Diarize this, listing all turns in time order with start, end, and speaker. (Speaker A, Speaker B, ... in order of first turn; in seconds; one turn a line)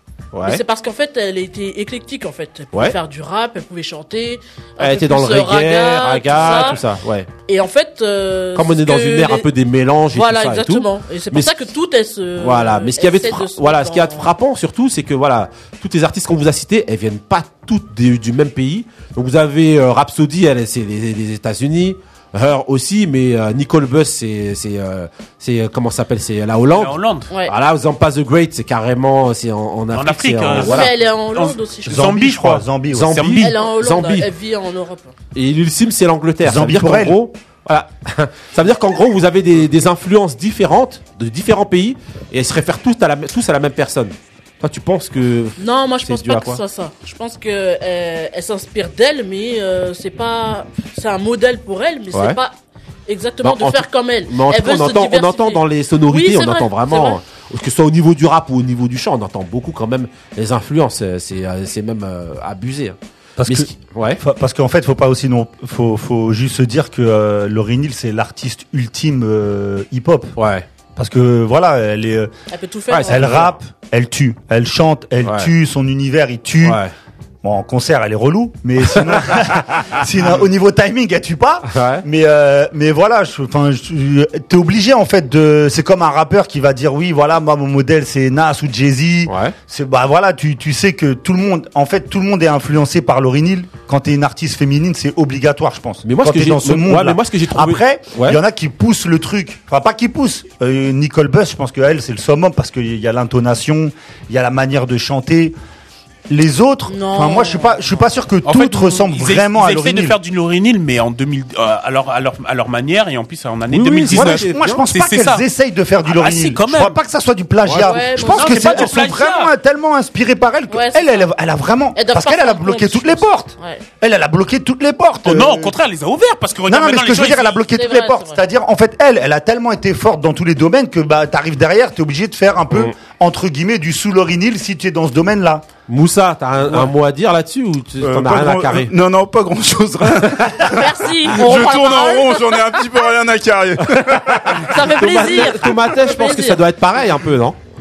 Speaker A: 0.3-0.6
Speaker B: 0.4-6.8
Speaker A: 4.8-7.3
Speaker B: 7.5-9.5
Speaker A: 8.5-11.6
Speaker B: 10.1-14.3
Speaker A: 12.4-26.9
Speaker C: 26.7-27.3
Speaker A: 27.4-30.9
Speaker C: 29.9-33.6
Speaker B: 30.6-32.1
Speaker D: 31.9-33.2
Speaker A: 32.9-34.3
Speaker B: 33.4-35.1
Speaker A: 35.3-46.6
Speaker D: 36.4-37.2
Speaker B: 45.6-52.5
Speaker A: 52.1-52.4
Speaker B: 53.1-57.2
Speaker A: 53.4-64.2
Speaker D: 63.4-70.3
Speaker A: 70.4-70.7
Speaker D: 71.0-72.3
Speaker B: 72.5-73.4
Speaker A: 72.9-73.5
Speaker D: 73.1-76.8
Speaker A: 75.2-75.5
Speaker A: 76.6-76.9
Speaker D: 77.4-105.5
Speaker A: 78.9-79.2
Speaker A: 81.7-82.0
Speaker A: 89.3-89.5
Speaker A: 96.0-98.4
Speaker D: 106.3-110.2
Speaker B: 106.9-108.0
Speaker C: 108.4-115.4
Speaker A: 113.7-114.8
Speaker D: 114.1-125.7
Speaker C: 116.1-117.0
Speaker A: 117.6-118.0
Speaker B: 117.8-119.2
Speaker C: 118.2-119.5
Speaker B: 120.7-121.3
Speaker B: 121.9-123.8
Speaker C: 125.2-127.6
Speaker D: 126.7-135.6
Speaker B: 127.7-128.4
Speaker A: 135.9-138.9
Speaker E: 138.0-144.7
Speaker B: 140.7-142.8
Speaker A: 143.9-147.6
Speaker B: 144.7-146.6